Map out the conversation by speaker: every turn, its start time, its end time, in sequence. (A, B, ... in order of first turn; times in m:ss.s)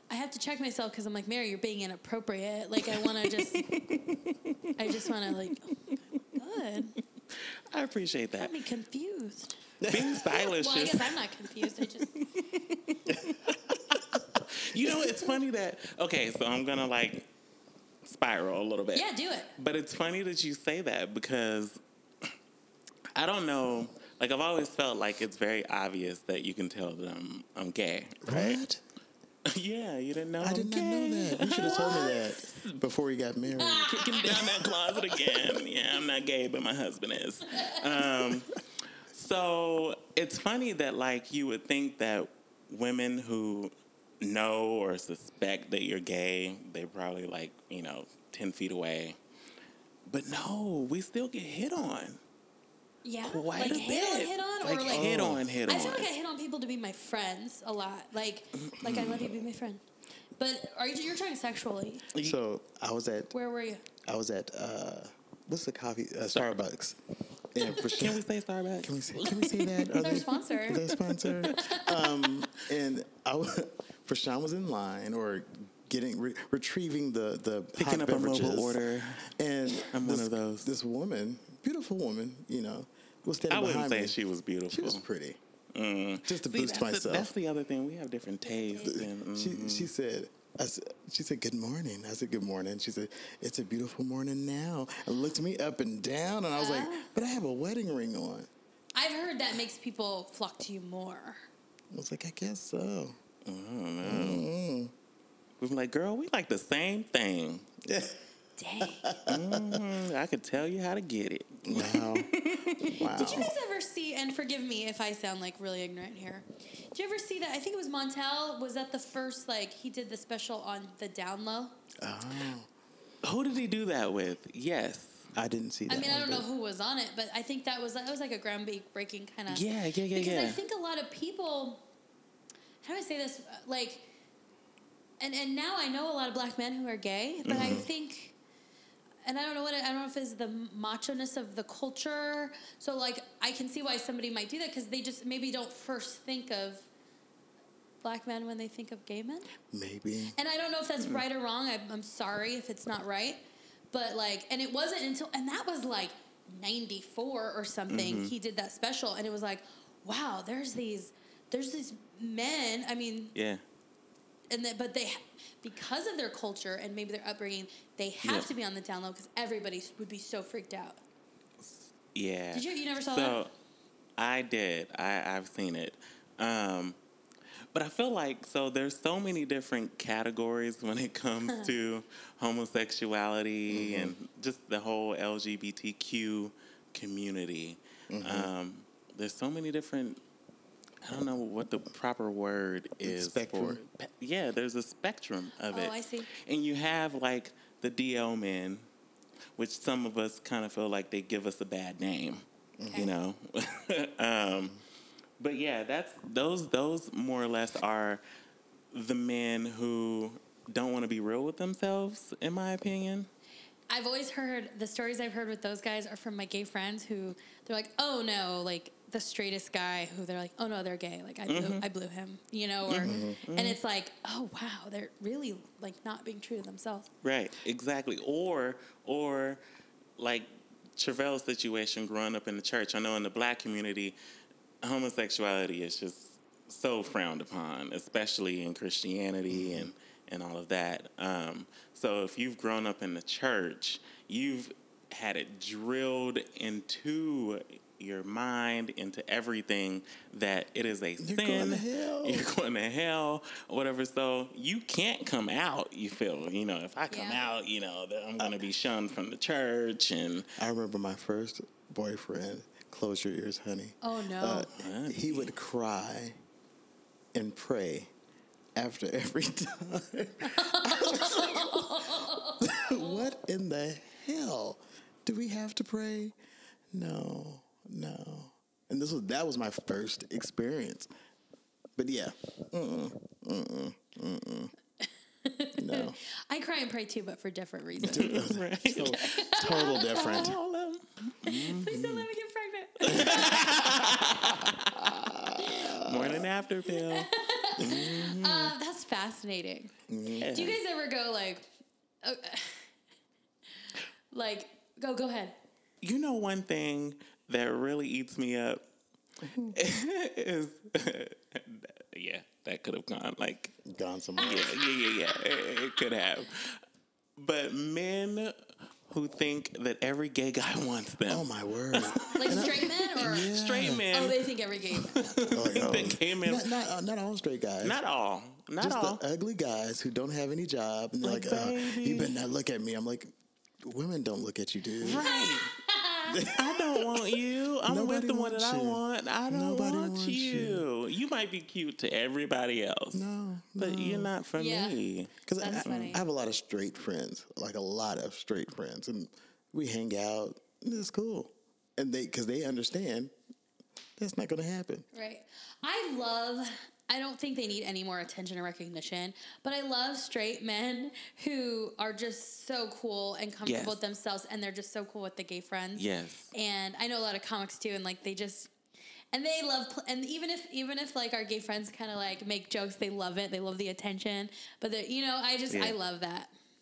0:00.1-0:03.7 A
0:02.9-0:06.0 B
0:04.8-0:07.0 A
0:07.7-0:08.5 B
0:08.4-0:09.6 A
0:09.8-0:10.3 C
0:09.9-0:17.3 B
0:10.3-0:12.1 A
0:13.1-0:13.8 C
0:14.7-0:15.4 C
0:18.0-0:21.8 B
0:18.9-0:19.5 A
0:23.2-0:28.6 B
0:28.2-0:28.8 C
0:29.5-0:32.8 B
0:30.4-0:34.0 C
0:31.5-0:32.3 A
0:33.6-0:35.5 A
0:33.8-0:38.6 B
0:39.1-0:49.2 B
0:50.1-0:52.2 B
0:53.0-0:59.8 A
0:53.2-0:56.1 B
0:54.8-0:55.5 C
0:58.6-0:59.4 B
1:00.4-1:02.1 A
1:02.2-1:03.3 C
1:03.3-1:03.8 A
1:04.0-1:07.0 C
1:07.5-1:08.2 C
1:07.6-1:10.3 B
1:08.8-1:24.2 C
1:10.0-1:12.0 A
1:10.9-1:11.8 B
1:17.8-1:19.3 B
1:19.8-1:20.7 B
1:23.5-1:25.0 B
1:24.7-1:25.4 C
1:25.7-1:29.9 B
1:26.3-1:27.3 C
1:28.5-1:29.0 A
1:28.8-1:38.5 C
1:36.6-1:37.1 A
1:39.0-1:41.5 A
1:41.9-1:43.2 C
1:43.4-1:44.5 B
1:44.0-1:44.9 C
1:45.6-1:47.7 B
1:47.8-1:48.2 C
1:48.6-1:49.1 A
1:48.8-1:49.8 C
1:49.3-1:53.5 B
1:51.6-1:52.3 C
1:52.9-1:53.5 C
1:53.1-2:01.8 A
2:02.0-2:02.7 C
2:03.2-2:05.3 B
2:05.3-2:06.5 C
2:05.9-2:11.8 A
2:09.5-2:10.6 B
2:12.8-2:14.1 A
2:15.2-2:18.4 A
2:17.5-2:17.8 B
2:17.5-2:17.9 C
2:19.2-2:26.9 A
2:28.0-2:29.5 A
2:29.7-2:30.4 C
2:30.4-2:33.4 A
2:33.9-2:43.3 A
2:37.9-2:38.3 B
2:43.4-2:43.6 B
2:44.5-2:51.0 A
2:48.2-2:48.5 B
2:51.6-2:53.5 B
2:52.5-2:53.4 A
2:54.2-2:57.0 B
2:57.7-3:10.2 B
3:03.7-3:04.2 C
3:08.1-3:08.5 C
3:11.0-3:18.8 B
3:13.0-3:13.8 C
3:15.7-3:16.3 A
3:19.6-3:24.8 B
3:22.8-3:23.1 C
3:22.9-3:23.1 A
3:25.4-3:28.2 B
3:28.9-3:33.3 B
3:33.9-3:47.1 A
3:41.5-3:41.8 B
3:42.9-3:43.8 B
3:43.0-3:43.4 C
3:47.2-3:49.6 B
3:50.2-3:54.2 B
3:54.8-4:20.5 B
3:59.5-3:59.9 C
4:11.2-4:12.5 C
4:17.1-4:17.5 A
4:20.6-4:26.4 C
4:24.0-4:24.7 A
4:24.7-4:25.5 B
4:27.3-4:28.1 C
4:28.8-4:36.4 C
4:30.4-4:33.3 A
4:36.9-4:41.1 C
4:42.0-4:44.7 C
4:45.4-4:50.5 A
4:45.8-4:46.2 C
4:48.0-4:50.6 C
4:48.1-4:52.3 B
4:51.4-4:54.1 A
4:53.0-4:58.7 B
4:53.1-4:56.5 C
4:56.9-4:59.9 A
5:00.1-5:00.5 C
5:00.4-5:00.8 B
5:00.5-5:01.7 A
5:02.2-5:02.9 A
5:04.3-5:05.6 A
5:06.0-5:08.8 B
5:09.4-5:09.8 C
5:09.7-5:13.8 B
5:13.8-5:14.7 C
5:14.4-5:16.0 A
5:14.4-5:16.8 B
5:17.4-5:26.7 B
5:21.3-5:24.1 C
5:22.4-5:23.5 A
5:24.1-5:25.3 A
5:25.5-5:28.0 C
5:27.8-5:29.2 B
5:28.8-5:33.3 C
5:31.2-5:32.4 B
5:33.8-5:35.2 C
5:35.0-5:35.7 B
5:35.1-5:36.5 A
5:36.3-5:37.2 C
5:36.5-5:46.0 B
5:37.9-5:40.9 C
5:43.1-5:44.3 C
5:44.6-5:45.0 A
5:45.5-5:53.3 C
5:45.6-5:46.2 A
5:54.2-5:55.1 C
5:55.1-6:08.7 A
6:03.6-6:04.0 B
6:06.0-6:06.5 B
6:09.3-6:16.5 A
6:15.7-6:16.0 B